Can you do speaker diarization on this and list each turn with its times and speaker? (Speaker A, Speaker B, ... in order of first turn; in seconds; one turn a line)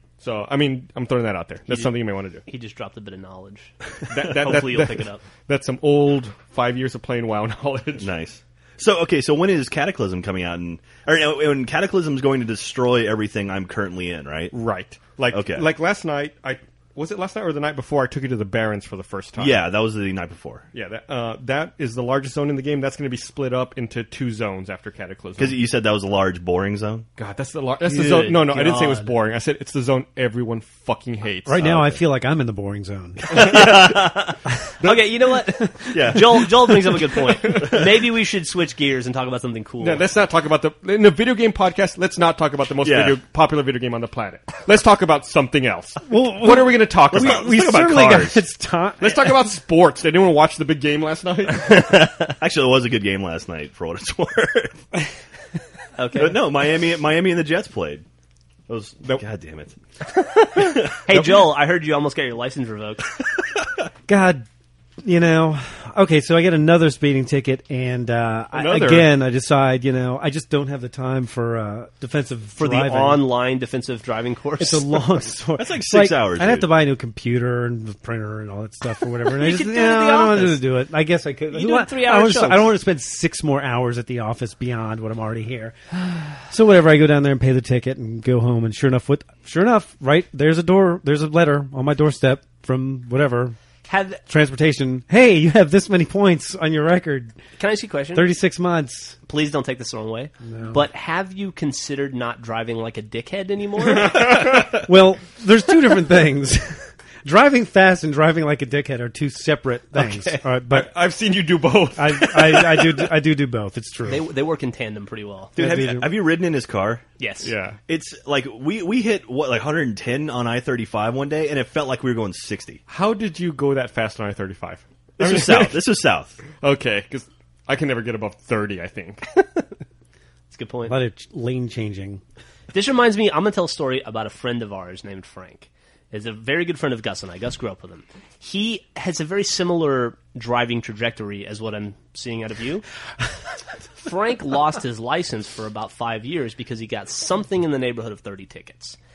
Speaker A: 0.2-2.4
Speaker B: 2.4-5.2
Speaker A: 4.1-8.1
Speaker C: 8.0-14.5
Speaker A: 14.5-19.6
Speaker C: 15.3-15.7
Speaker C: 19.4-20.6
Speaker A: 20.7-25.6
Speaker C: 25.4-27.1
Speaker A: 27.2-31.8
Speaker B: 27.9-29.1
Speaker D: 31.4-33.6
Speaker C: 31.6-32.0
Speaker C: 33.3-34.4
Speaker B: 34.8-40.0
Speaker C: 35.9-37.8
Speaker A: 39.8-47.5
Speaker C: 42.8-43.2
Speaker D: 46.0-49.3
Speaker C: 47.1-48.4
Speaker A: 49.0-51.9
Speaker C: 51.8-54.8
Speaker B: 56.0-56.4
Speaker C: 56.1-58.0
Speaker C: 58.7-59.7
Speaker B: 60.1-63.1
Speaker D: 64.1-64.5
Speaker D: 65.0-73.3
Speaker A: 68.5-69.1
Speaker B: 72.6-75.1
Speaker D: 74.6-93.5
Speaker C: 75.6-76.7
Speaker B: 79.3-80.6
Speaker B: 81.5-82.7
Speaker B: 93.9-94.2
Speaker D: 94.3-97.3
Speaker B: 97.6-98.3
Speaker D: 98.1-99.2
Speaker B: 99.2-104.4
Speaker D: 100.4-100.8
Speaker A: 104.0-104.5
Speaker D: 104.4-110.9
Speaker B: 110.0-110.4
Speaker A: 110.7-113.1
Speaker D: 111.9-114.2
Speaker B: 114.1-115.5
Speaker D: 115.5-116.2
Speaker C: 115.5-117.0
Speaker B: 117.2-117.5
Speaker A: 117.4-117.8
Speaker C: 117.9-122.8
Speaker A: 122.9-125.8
Speaker C: 125.2-126.4
Speaker A: 126.6-129.2
Speaker B: 130.5-130.9
Speaker D: 130.9-132.2
Speaker B: 132.7-142.8
Speaker B: 144.0-149.0